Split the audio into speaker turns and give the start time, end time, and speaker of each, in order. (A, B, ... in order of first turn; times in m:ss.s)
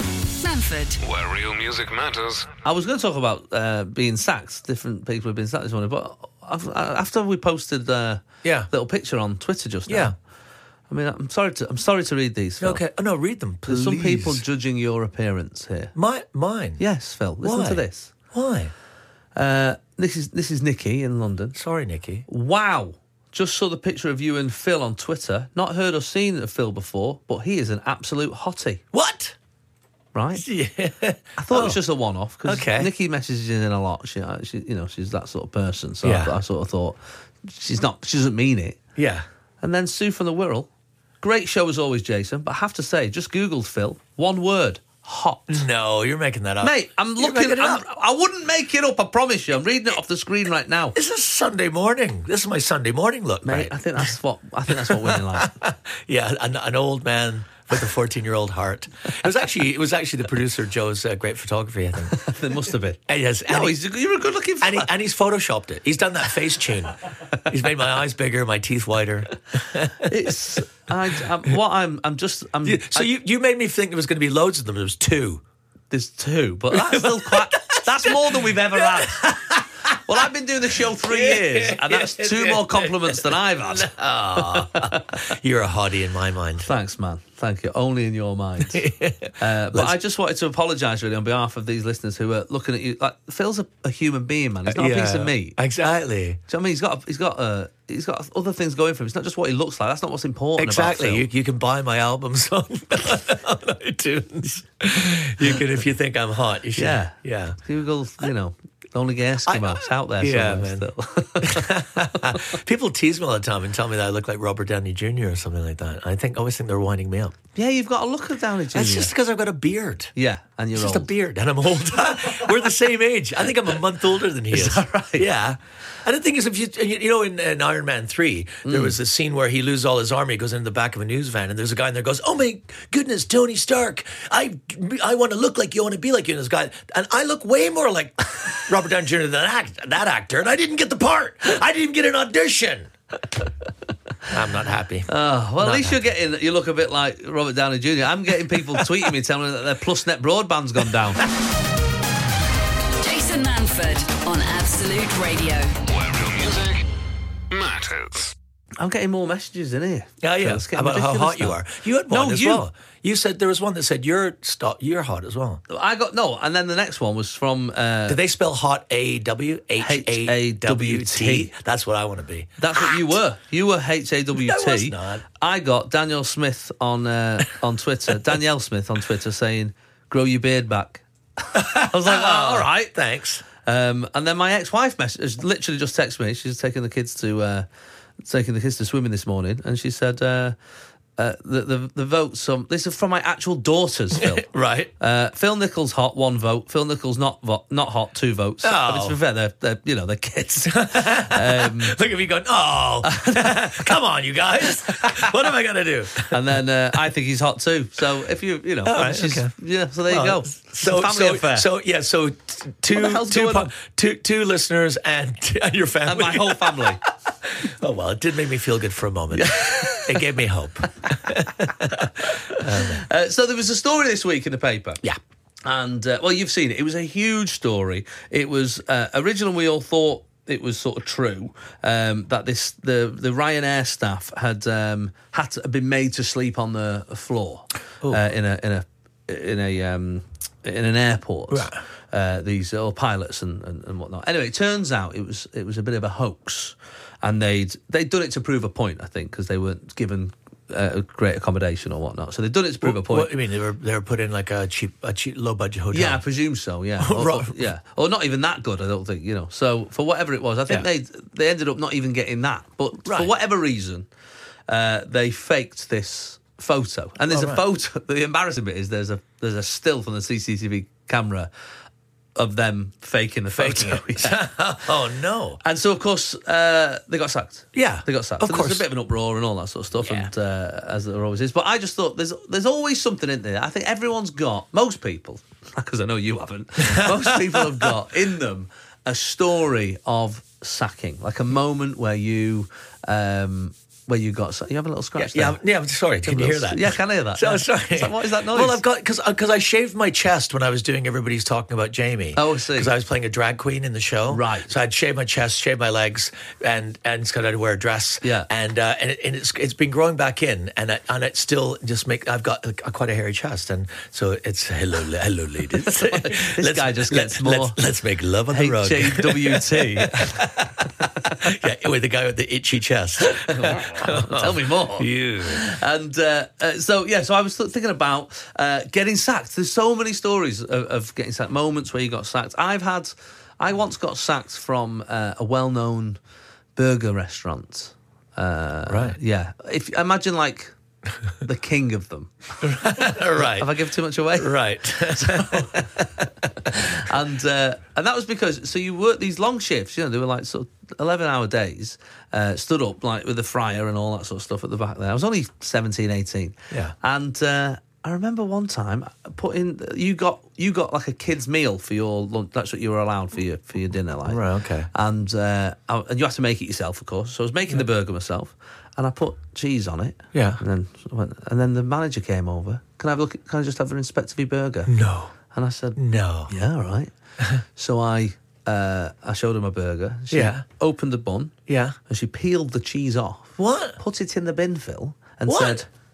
0:00.4-0:01.0 A
0:01.0-0:02.5 B
0:02.6-0:10.1 C
0:08.4-0:08.7 D
0:09.9-0:10.1 D
0:10.9-0:12.8 C
0:12.6-0:14.4 D
0:13.7-0:15.9 C
0:15.9-0:16.8 D
0:16.8-0:18.1 C
0:17.4-0:18.7 D
0:19.4-0:21.6 C
0:21.5-0:22.2 D
0:22.3-0:28.8 C
0:28.9-0:29.4 D
0:30.1-0:30.4 C
0:30.4-0:31.8 D
0:31.4-0:38.8 C
0:32.4-0:32.9 D
0:36.0-0:36.4 D
0:39.0-0:39.2 D
0:39.6-0:40.7 C
0:41.2-0:45.6 C
0:45.5-0:47.8 D
0:46.6-0:51.0 C
0:50.9-0:54.1 D
0:53.4-0:55.5 C
0:54.7-1:02.2 D
1:02.1-1:04.9 C
1:03.1-1:03.8 D
1:04.6-1:10.2 D
1:10.0-1:13.1 C
1:12.6-1:15.4 D
1:15.9-1:19.4 C
1:16.7-1:20.3 D
1:19.9-1:25.2 C
1:21.0-1:26.7 D
1:26.6-1:35.6 C
1:28.7-1:30.0 D
1:34.7-1:36.4 D
1:36.5-1:41.2 C
1:40.6-1:47.6 D
1:46.8-1:52.4 C
1:49.4-1:50.9 D
1:51.4-1:57.4 D
1:57.5-1:59.1 C
1:58.7-2:00.1 D
2:00.2-2:01.1 C
2:00.7-2:22.9 D
2:04.5-2:05.3 C
2:08.6-2:09.0 C
2:24.3-2:26.1 D
2:25.1-2:31.3 C
2:33.0-2:35.8 A
2:35.8-2:36.8 B
2:37.5-2:38.3 B
2:38.8-2:42.6 C
2:40.2-2:45.6 D
2:45.7-2:48.2 C
2:48.1-2:53.0 D
2:49.8-2:51.5 C
2:52.6-3:03.0 C
2:54.3-2:55.2 D
3:01.5-3:03.4 D
3:03.5-3:07.6 C
3:08.2-3:10.5 C
3:11.2-3:14.5 C
3:14.1-3:14.9 D
3:15.0-3:22.0 C
3:18.6-3:19.2 D
3:20.7-3:26.4 D
3:23.0-3:23.9 C
3:25.0-3:25.3 C
3:26.3-3:31.7 C
3:28.8-3:29.5 D
3:30.1-3:43.0 D
3:32.9-3:33.7 C
3:36.1-3:37.0 C
3:39.3-3:40.2 C
3:42.3-3:45.0 C
3:45.6-4:13.3 C
4:01.5-4:01.8 D
4:12.8-4:16.2 D
4:15.9-4:24.1 C
4:17.0-4:17.6 D
4:23.0-4:23.3 D
4:24.7-4:31.5 C
4:27.3-4:27.6 D
4:32.4-4:34.4 C
4:33.5-4:35.6 D
4:35.6-4:55.6 C
4:37.7-4:38.8 D
4:40.0-4:40.3 D
4:46.8-4:47.9 D
4:55.2-5:25.7 D
4:56.2-4:58.8 C
5:02.3-5:02.9 C
5:04.3-5:04.7 C
5:08.2-5:08.5 C
5:15.9-5:17.8 C
5:18.5-5:20.4 C
5:23.3-5:36.2 C
5:36.8-5:40.7 C
5:38.9-5:39.2 D
5:41.4-5:42.6 C
5:42.6-5:43.7 D
5:43.4-5:46.0 C
5:44.4-5:46.1 D
5:46.7-6:04.4 C
6:04.2-6:04.9 D
6:04.9-6:14.9 C
6:10.3-6:10.6 D
6:14.9-6:15.3 D
6:15.5-6:17.1 C
6:16.0-6:16.5 D
6:17.8-6:21.6 C
6:20.3-6:20.6 D
6:21.7-6:22.0 D
6:22.1-6:25.9 C
6:23.6-6:24.0 D
6:25.4-6:25.8 D